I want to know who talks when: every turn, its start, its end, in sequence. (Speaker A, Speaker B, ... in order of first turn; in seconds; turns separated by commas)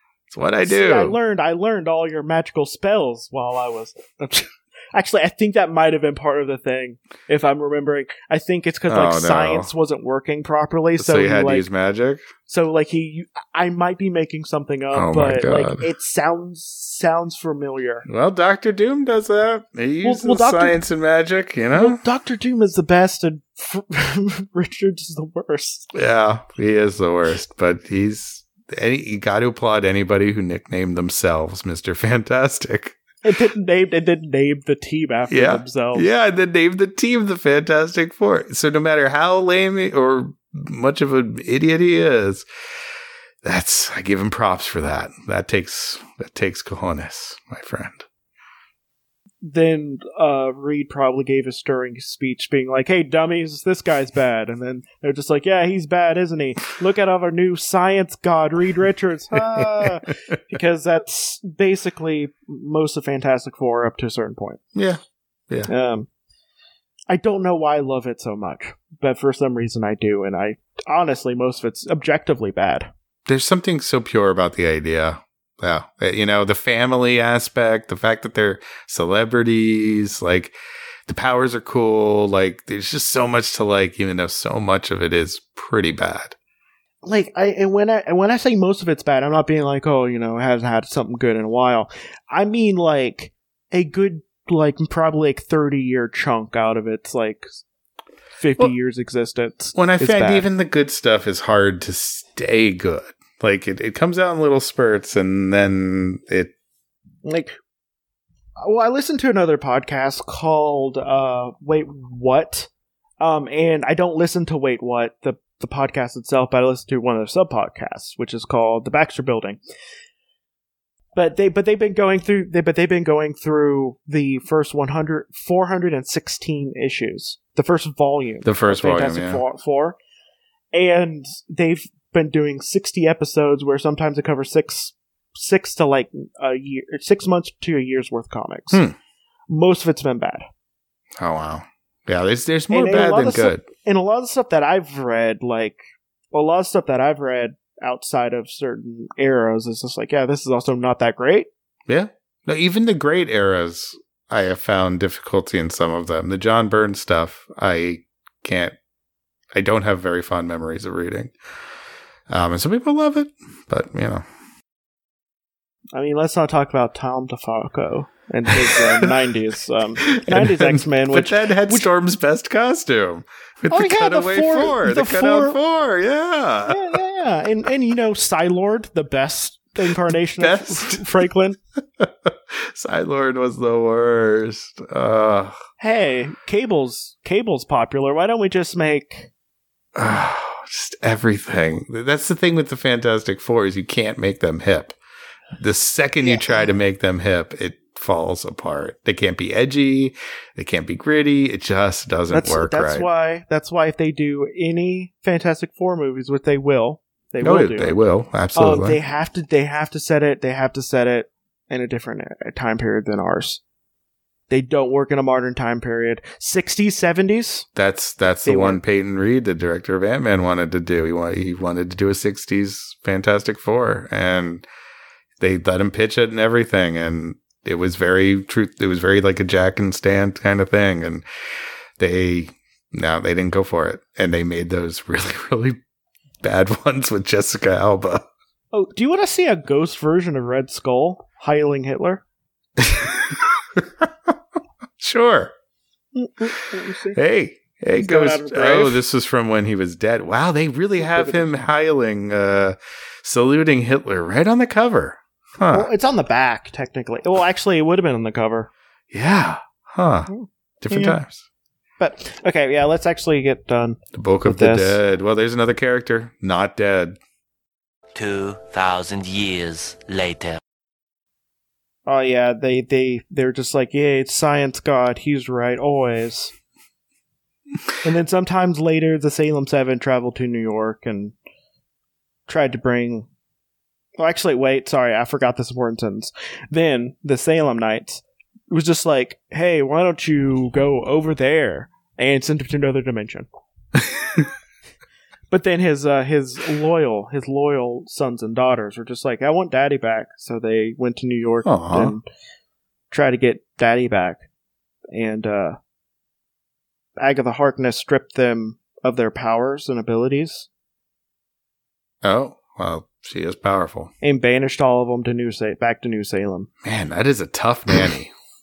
Speaker A: 0.3-1.1, Speaker B: 0.6-11.6, Speaker A: 8.9-9.7, Speaker A: 11.0-12.3, Speaker B: 12.5-18.1, Speaker A: 14.9-15.8, Speaker A: 18.1-22.0, Speaker B: 20.0-20.8, Speaker B: 21.7-25.9, Speaker A: 25.9-33.0, Speaker B: 33.2-36.1, Speaker A: 35.3-42.5, Speaker A: 43.4-48.0, Speaker B: 49.4-64.6, Speaker A: 59.5-59.9, Speaker A: 64.7-65.7, Speaker B: 65.7-66.1, Speaker B: 67.1-72.9, Speaker A: 73.2-80.5, Speaker A: 81.1-86.3, Speaker B: 87.0-97.6, Speaker B: 98.4-100.5, Speaker A: 99.7-106.5, Speaker B: 107.2-107.5, Speaker B: 108.6-112.7, Speaker B: 113.2-119.6, Speaker B: 121.1-130.0, Speaker A: 128.4-129.4, Speaker B: 130.7-138.8, Speaker A: 138.7-138.9, Speaker B: 139.5-140.4, Speaker A: 141.2-143.6, Speaker B: 142.7-145.8, Speaker B: 146.3-151.5, Speaker A: 151.9-158.7, Speaker A: 159.5-161.3, Speaker A: 162.3-164.2, Speaker B: 165.9-171.9, Speaker A: 168.7-169.0, Speaker A: 170.0-177.0, Speaker B: 173.7-175.6, Speaker B: 176.7-181.6, Speaker A: 180.4-181.1, Speaker A: 182.0-185.6, Speaker B: 185.8-189.3, Speaker A: 189.9-194.9, Speaker A: 195.6-203.1, Speaker B: 196.2-196.7, Speaker B: 202.3-208.0, Speaker A: 207.4-209.0, Speaker B: 208.5-213.6, Speaker B: 214.5-217.7, Speaker A: 217.8-224.7, Speaker B: 218.4-218.8, Speaker A: 225.4-231.2, Speaker A: 232.0-235.8, Speaker A: 236.4-238.2, Speaker B: 238.7-242.2, Speaker A: 242.8-244.3, Speaker A: 245.0-245.5, Speaker B: 246.1-247.2, Speaker A: 247.1-255.9, Speaker B: 248.0-249.0, Speaker B: 251.0-251.4, Speaker B: 255.7-258.7, Speaker A: 259.1-260.3, Speaker B: 260.3-261.2, Speaker A: 260.8-261.4, Speaker B: 262.0-265.0, Speaker A: 264.1-267.2, Speaker C: 268.1-270.6, Speaker B: 272.1-276.5, Speaker B: 278.0-281.3, Speaker B: 282.5-283.3, Speaker B: 284.2-293.5, Speaker B: 295.5-302.2, Speaker A: 301.6-302.1, Speaker B: 303.1-304.4, Speaker B: 305.1-305.8, Speaker B: 307.2-310.7, Speaker A: 312.2-314.1, Speaker B: 314.2-316.7, Speaker A: 316.8-318.3